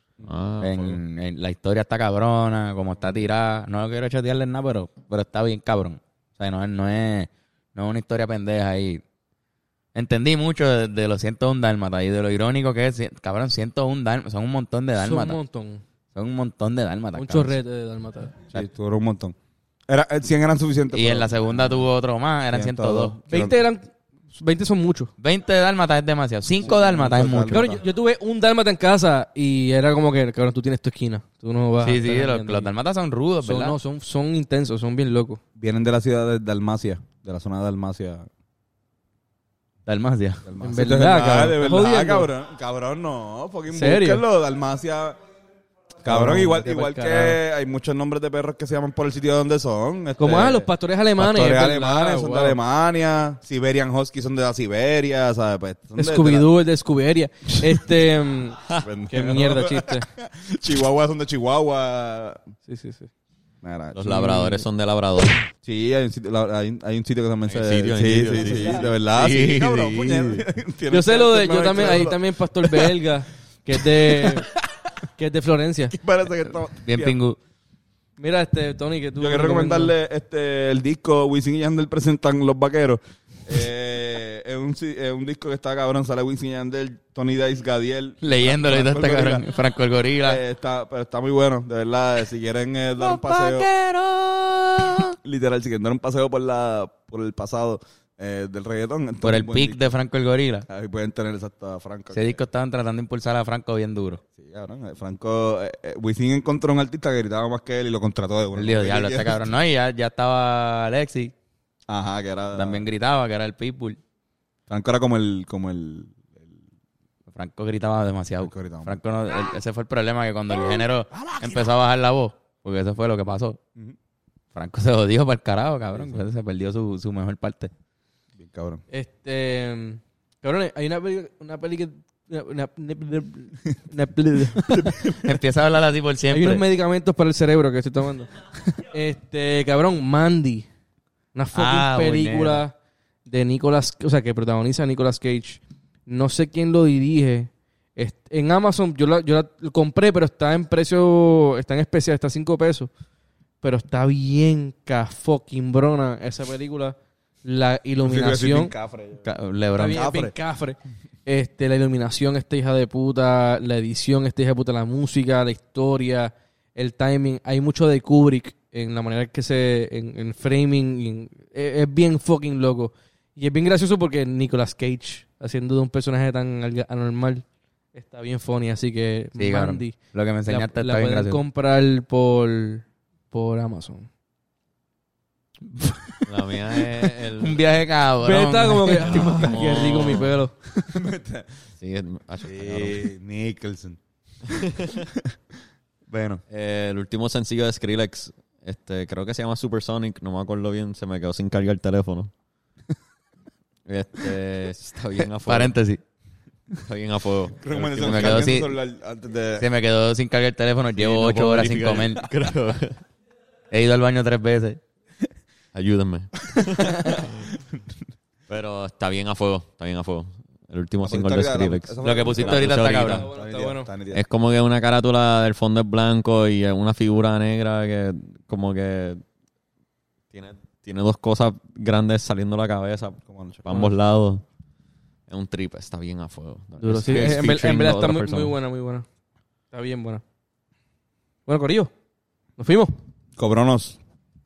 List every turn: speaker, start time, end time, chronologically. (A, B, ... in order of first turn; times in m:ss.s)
0:00.2-0:01.0 A
0:00.2-0:00.9 B
0:00.6-0:09.0 C
0:09.9-0:15.4 C
0:15.0-0:15.8 D
0:16.1-0:17.6 C
0:17.2-0:18.4 D
0:18.5-0:19.3 A
0:19.9-0:21.9 A
0:20.9-0:23.2 C
0:22.5-0:23.6 A
0:23.3-0:25.1 D
0:25.2-0:27.7 C
0:26.6-0:27.8 A
0:27.5-0:32.7 D
0:31.8-0:33.8 C
0:33.4-0:35.4 D
0:35.6-0:38.3 A
0:39.8-0:40.4 C
0:40.4-0:45.2 A
0:40.6-0:42.3 D
0:43.7-0:44.2 D
0:46.0-0:56.5 A
0:46.0-0:47.4 D
0:50.2-0:52.6 D
0:56.0-1:00.1 D
0:57.5-0:57.9 A
0:58.8-1:02.4 A
1:02.7-1:03.1 D
1:03.6-1:04.6 A
1:03.9-1:05.4 B
1:05.6-1:12.9 A
1:07.5-1:10.4 B
1:08.6-1:08.8 D
1:10.9-1:14.5 D
1:13.9-1:14.5 A
1:15.2-1:16.0 D
1:15.9-1:17.2 A
1:16.8-1:17.4 C
1:18.2-1:19.9 D
1:19.2-1:29.4 A
1:28.2-1:30.4 C
1:30.2-1:33.7 A
1:33.0-1:35.1 C
1:35.2-1:39.8 A
1:39.2-1:40.6 C
1:40.7-1:42.4 A
1:42.1-1:44.2 C
1:44.4-1:49.5 A
1:48.5-1:51.3 C
1:51.9-1:52.8 A
1:52.5-1:54.0 C
1:54.7-1:56.5 A
1:57.3-2:03.6 C
1:58.4-1:59.0 A
2:04.5-2:07.7 C
2:05.9-2:06.2 A
2:08.4-2:08.8 A
2:08.9-2:15.1 D
2:14.5-2:15.3 A
2:15.2-2:16.6 C
2:16.3-2:18.3 D
2:18.9-2:20.6 D
2:21.3-2:22.7 D
2:21.5-2:22.6 C
2:23.2-2:32.9 D
2:33.6-2:38.7 D
2:38.0-2:39.3 A
2:39.2-2:40.0 C
2:39.7-3:04.1 D
2:39.9-2:40.3 A
2:59.4-3:01.4 C
3:05.7-3:06.3 C
3:06.3-3:07.6 B
3:07.4-3:09.6 C
3:08.2-3:10.5 D
3:09.0-3:10.4 B
3:10.8-3:11.5 A
3:11.8-3:13.0 B
3:12.4-3:14.0 A
3:14.5-3:15.3 A
3:14.5-3:15.0 B
3:16.1-3:16.4 C
3:16.5-3:22.3 B
3:23.8-3:25.7 B
3:25.4-3:26.0 C
3:26.8-3:28.5 B
3:27.6-3:29.7 A
3:28.0-3:28.8 C
3:29.6-3:32.3 C
3:31.0-3:33.0 B
3:33.7-3:34.8 C
3:35.7-3:37.5 B
3:38.5-3:43.3 B
3:41.0-3:44.2 A
3:42.0-3:43.3 C
3:43.1-3:43.9 D
3:44.1-3:49.2 B
3:50.3-3:54.4 B
3:53.2-3:53.6 A
3:55.3-3:58.5 B
3:56.8-3:59.0 D
3:59.7-4:00.2 D
4:01.5-4:01.9 D
4:02.6-4:03.0 D
4:03.4-4:04.0 A